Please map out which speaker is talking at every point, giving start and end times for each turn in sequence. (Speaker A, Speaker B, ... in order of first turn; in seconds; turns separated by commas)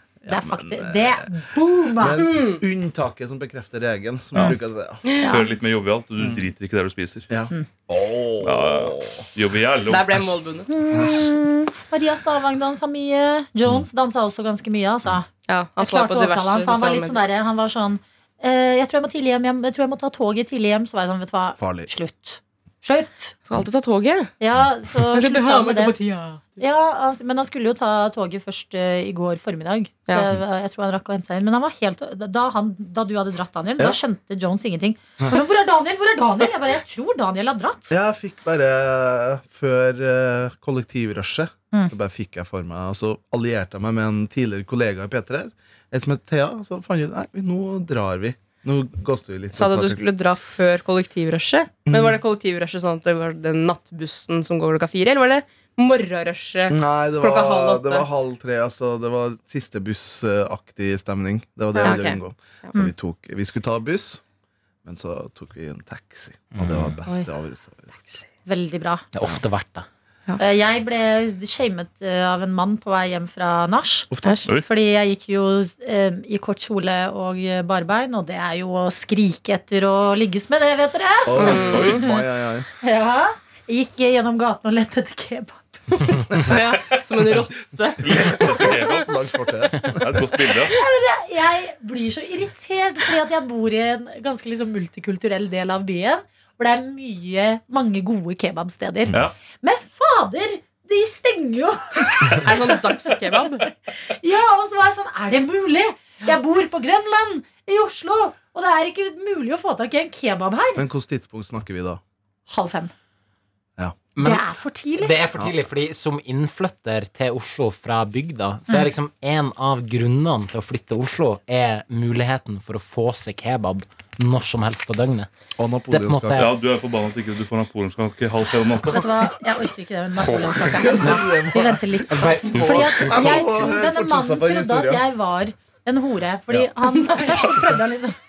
Speaker A: 0.2-1.4, Speaker B: 0.3-2.3, Speaker A: 1.9-5.1, Speaker C: 2.2-2.6, Speaker D: 5.1-7.3, Speaker B: 5.2-5.5, Speaker A: 6.2-6.4, Speaker A: 7.3-9.2, Speaker D: 8.4-10.3, Speaker C: 9.9-10.7, Speaker B: 10.7-23.4, Speaker A: 10.9-11.3, Speaker C: 15.5-17.2, Speaker A: 21.6-21.9, Speaker C: 23.5-24.3, Speaker B: 24.4-25.9, Speaker C: 25.1-26.4, Speaker B: 26.6-37.9, Speaker A: 37.9-50.0, Speaker C: 49.5-58.1, Speaker A: 51.9-52.2, Speaker A: 56.7-64.2, Speaker B: 61.8-62.0, Speaker C: 61.8-62.7, Speaker A: 64.8-68.2, Speaker E: 66.5-66.9, Speaker B: 68.5-69.1, Speaker E: 69.1-69.9, Speaker B: 70.4-82.2, Speaker A: 74.1-74.4, Speaker A: 81.3-82.7, Speaker C: 81.4-82.0, Speaker D: 81.6-82.0, Speaker B: 82.8-86.2, Speaker C: 86.3-88.0, Speaker D: 88.0-89.1, Speaker A: 88.1-90.2, Speaker D: 90.0-90.8, Speaker B: 90.7-102.8, Speaker C: 102.4-103.7, Speaker B: 104.0-110.8, Speaker A: 110.8-112.0, Speaker B: 112.5-112.9, Speaker E: 114.2-114.5, Speaker B: 114.2-115.1, Speaker E: 115.0-125.3, Speaker A: 125.6-126.5, Speaker E: 125.9-126.5, Speaker D: 126.3-129.2, Speaker B: 128.8-138.2, Speaker A: 130.5-135.1, Speaker E: 131.0-131.3, Speaker E: 132.1-133.6, Speaker C: 137.0-137.3